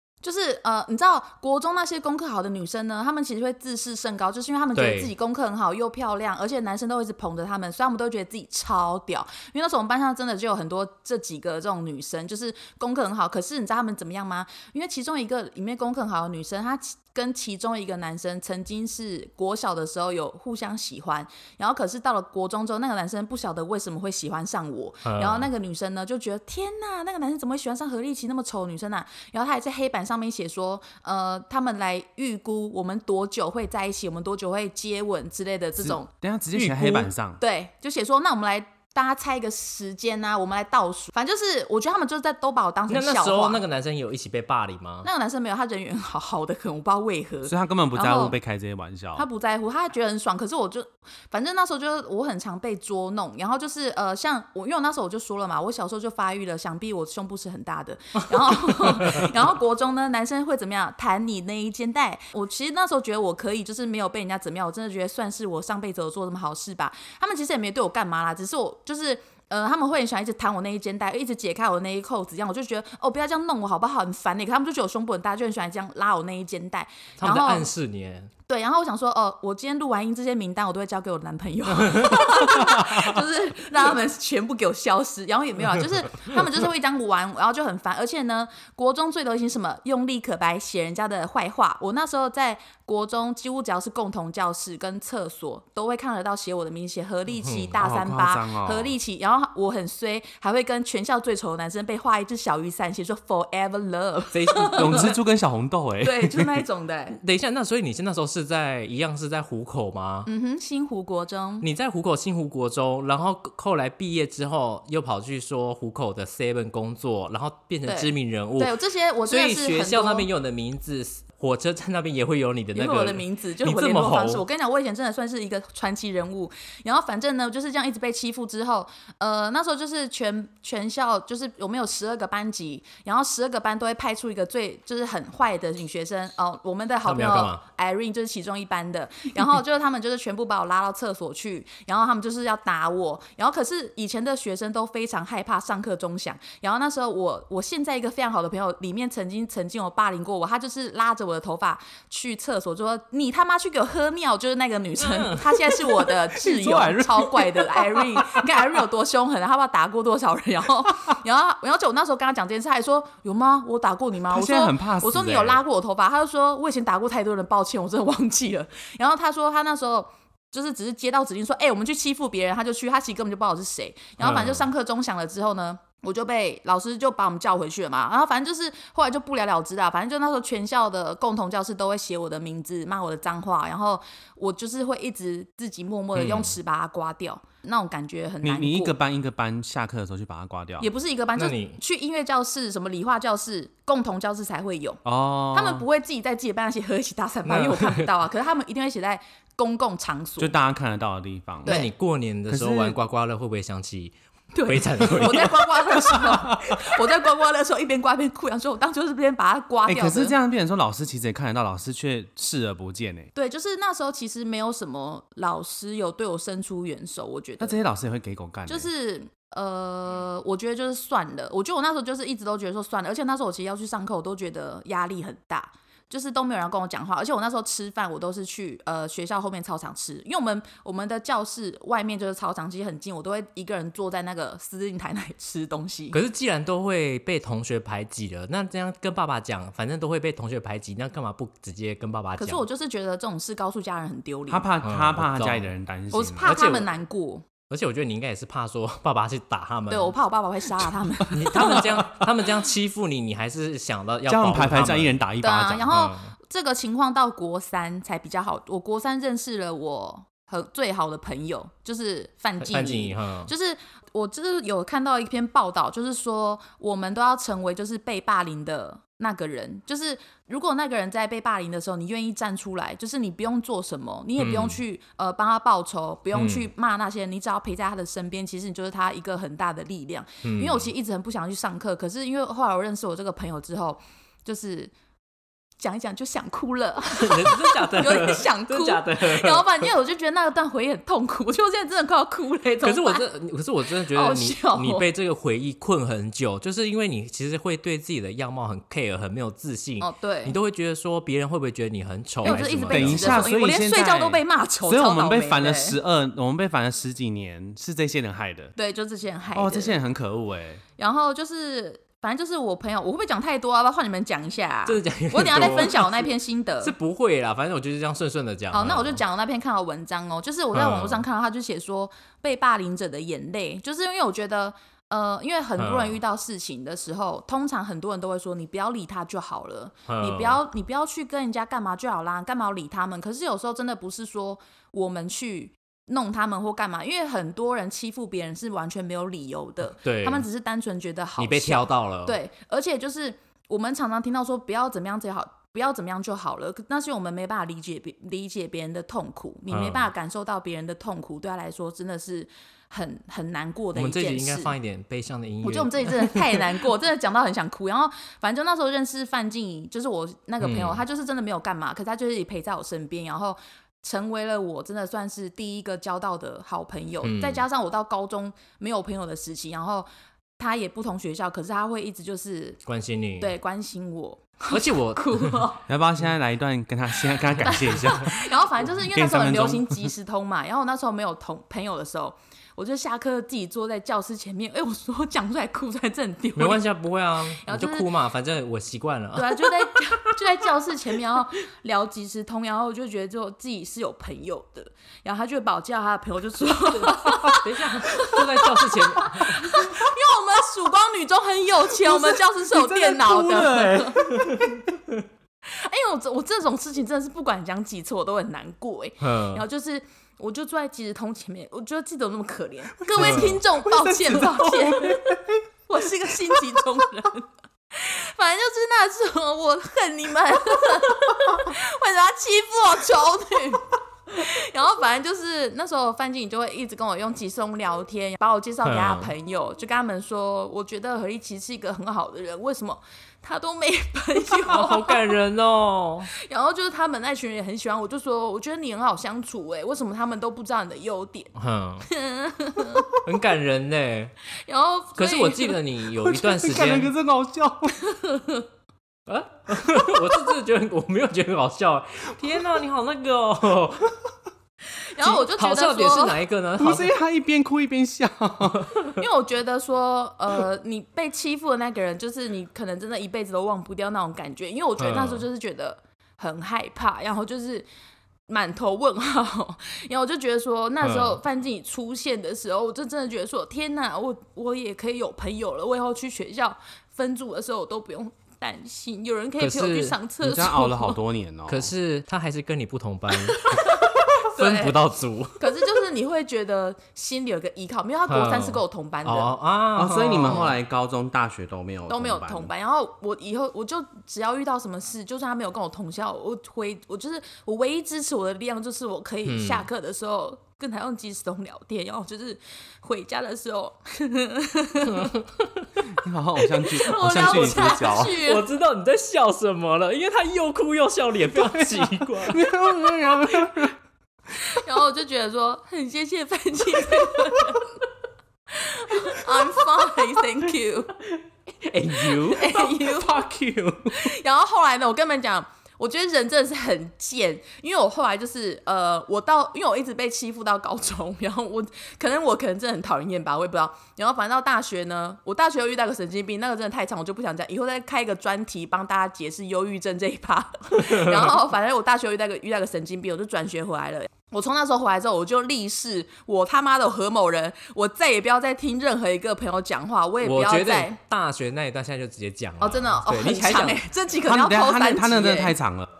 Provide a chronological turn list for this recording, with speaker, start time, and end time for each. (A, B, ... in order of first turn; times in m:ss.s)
0:00.2-0:43.6 A
0:04.8-0:05.1 B
0:25.0-0:25.5 B
0:35.8-0:37.4 C
0:42.9-0:45.1 B
0:45.0-0:48.4 A
0:47.4-0:49.2 C
0:49.2-1:17.7 A
1:17.2-1:18.3 B
1:18.5-1:45.1 A
1:21.8-1:22.5 B
1:37.4-1:37.7 B
1:37.8-1:38.9 C
1:44.3-1:45.1 B
1:44.8-1:46.6 C
1:46.0-1:47.2 A
1:47.2-1:50.3 B
1:50.2-1:51.7 A
1:51.6-1:58.8 B
1:57.8-2:00.3 A
1:59.3-2:04.4 B
2:02.7-3:08.9 A
2:17.0-2:17.6 B
2:35.0-2:35.7 B
2:36.3-2:38.5 C
2:44.3-2:45.6 C
2:54.2-2:54.6 B
3:06.1-3:06.5 B
3:08.4-3:10.9 C
3:10.8-3:20.5 A
3:11.4-3:11.8 B
3:15.0-3:15.8 C
3:17.4-3:18.1 B
3:20.4-3:21.8 C
3:21.6-3:21.9 A
3:21.6-3:24.1 B
3:22.5-3:23.0 C
3:24.5-3:30.3 A
3:24.6-3:25.7 B
3:26.1-3:26.8 C
3:29.9-3:33.3 C
3:33.3-3:37.8 A
3:37.6-3:38.9 C
3:38.7-3:56.2 A
3:56.1-4:02.6 B
4:02.4-4:04.7 A
4:04.5-4:06.6 C
4:04.8-4:05.7 B
4:06.1-4:07.4 A
4:06.4-4:06.9 B
4:07.7-4:10.1 B
4:09.9-4:11.9 A
4:11.3-4:15.1 B
4:11.6-4:12.0 C
4:14.3-4:15.9 C
4:15.4-4:44.9 A
4:15.9-4:16.3 B
4:22.6-4:23.5 B
4:34.4-4:34.8 B
4:36.3-4:36.7 B
4:40.4-4:40.9 B
4:45.8-4:53.2 A
4:47.1-4:49.9 B
4:52.8-5:03.5 B
4:54.1-4:55.1 A
5:00.0-5:00.5 A
5:02.4-5:06.0 A
5:02.4-5:08.7 C
5:08.8-5:10.0 A
5:09.5-5:10.8 C
5:11.0-5:16.9 A
5:14.8-5:16.3 B
5:16.8-5:19.2 B
5:18.7-5:54.7 A
5:20.7-5:21.2 B
5:25.8-5:26.2 B
5:30.1-5:30.6 B
5:40.0-5:40.4 B
5:41.4-5:42.4 B
5:49.7-5:50.1 B
5:53.9-5:56.6 B
5:55.6-6:10.1 A
6:00.6-6:01.0 B
6:07.2-6:07.6 B
6:10.6-6:12.8 A
6:12.8-6:13.5 B
6:13.4-6:15.8 A
6:14.7-6:15.6 B
6:15.9-6:20.1 C
6:17.6-6:26.8 A
6:26.6-6:30.0 B
6:27.5-6:28.1 A
6:29.3-6:44.4 A
6:36.9-6:39.8 B
6:42.3-6:44.8 C
6:44.4-6:44.6 B
6:45.6-7:15.3 A
6:49.2-6:49.6 B
6:53.1-6:55.6 C
6:53.2-6:53.6 B
7:08.8-7:09.3 B
7:14.5-7:16.3 B
7:16.3-7:21.5 A
7:21.6-7:22.1 B
7:22.0-7:23.2 A
7:23.1-7:24.3 B
7:24.6-7:25.8 A
7:25.2-7:27.1 B
7:26.2-7:28.0 C
7:28.1-7:28.6 A
7:29.3-7:34.1 B
7:35.1-7:36.4 A
7:35.2-7:37.1 B
7:36.8-7:38.9 C
7:39.2-7:47.8 A
7:45.0-7:45.4 B
7:48.5-8:01.2 A
7:51.0-7:51.4 B
7:59.6-8:00.2 B
8:00.4-8:01.9 C
8:01.7-8:05.8 B
8:03.5-8:05.0 A
8:05.6-8:09.5 A
8:08.3-8:10.7 B
8:10.0-8:12.7 C
8:12.1-8:25.3 A
8:19.4-8:19.8 B
8:25.2-8:26.0 B
8:26.1-8:28.4 C
8:26.8-8:28.6 A
8:27.5-8:32.7 B
8:31.6-8:33.9 C
8:34.6-8:37.9 A
8:38.7-8:41.1 A
8:41.8-8:44.0 B
8:42.1-8:43.5 A
8:44.1-9:11.2 A
9:01.0-9:01.5 B
9:10.4-9:14.0 B
9:12.8-9:15.8 A
9:14.4-9:16.1 C